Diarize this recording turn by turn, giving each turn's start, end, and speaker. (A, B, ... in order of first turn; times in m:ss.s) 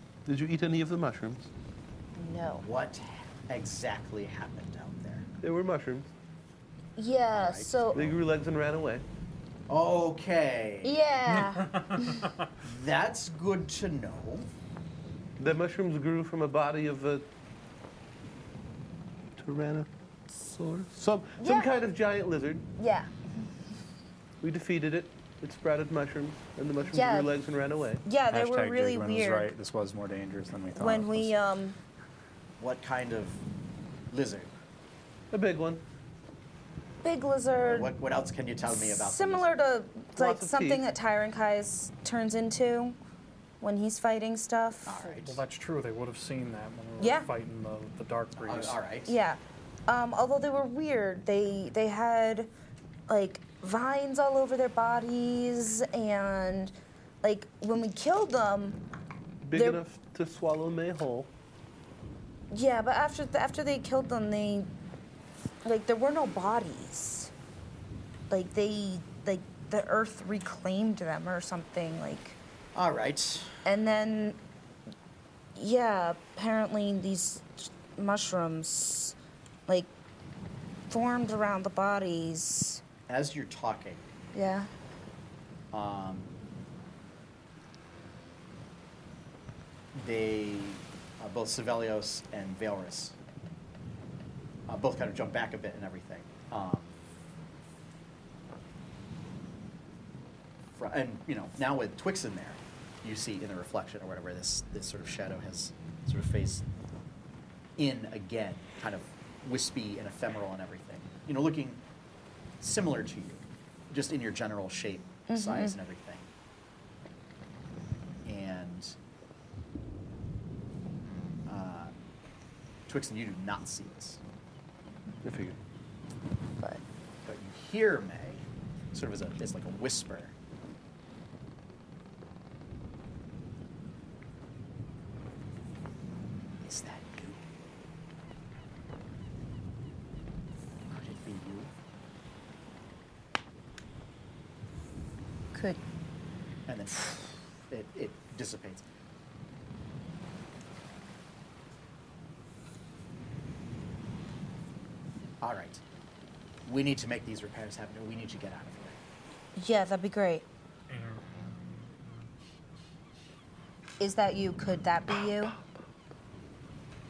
0:00.2-0:01.5 A
0:02.2-0:02.6 B
0:02.6-0:05.2 C
0:05.4-0:06.1 A
0:07.0-0:08.0 B
0:07.3-0:08.1 C
0:07.9-0:09.0 A
0:09.7-0:11.0 C
0:10.8-0:12.2 B
0:11.6-0:12.2 D
0:12.6-0:14.5 C
0:15.4-0:17.3 A
0:19.4-0:22.6 A
0:21.4-0:21.7 B
0:22.8-0:23.1 B
0:24.4-0:28.0 A
0:26.9-0:27.3 B
0:28.0-0:29.5 B
0:28.3-0:31.3 E
0:30.7-0:31.8 B
0:32.6-0:33.4 C
0:34.1-0:34.5 C
0:35.3-0:35.8 A
0:37.0-0:37.9 B
0:37.6-0:39.6 C
0:38.7-0:43.0 B
0:40.1-0:40.8 A
0:43.6-0:45.0 B
0:44.8-0:45.4 C
0:45.2-0:48.8 D
0:47.0-0:47.3 B
0:48.4-0:49.1 C
0:49.0-0:52.5 B
0:53.1-0:58.8 B
0:59.4-1:01.3 A
0:59.5-0:59.8 B
1:02.5-1:04.7 B
1:05.6-1:07.3 B
1:08.3-1:12.4 B
1:12.7-1:13.6 C
1:13.6-1:14.4 B
1:15.5-1:19.1 B
1:20.9-1:22.8 B
1:23.1-1:24.0 C
1:24.3-1:24.7 B
1:25.7-1:26.3 C
1:29.9-1:33.2 C
1:34.7-1:37.0 C
1:40.8-1:46.6 C
1:47.8-1:51.8 C
1:52.6-1:56.3 C
1:55.3-1:55.7 B
1:58.2-1:59.0 C
2:01.4-2:01.9 C
2:02.9-2:04.2 C
2:05.2-2:05.6 A
2:07.2-2:10.3 C
2:16.6-2:17.4 C
2:20.9-2:21.7 C
2:25.5-2:25.8 B
2:26.7-2:28.8 C
2:35.4-2:35.8 C
2:36.6-2:39.0 C
2:39.6-2:40.4 B
2:40.9-2:41.4 D
2:44.0-2:45.5 B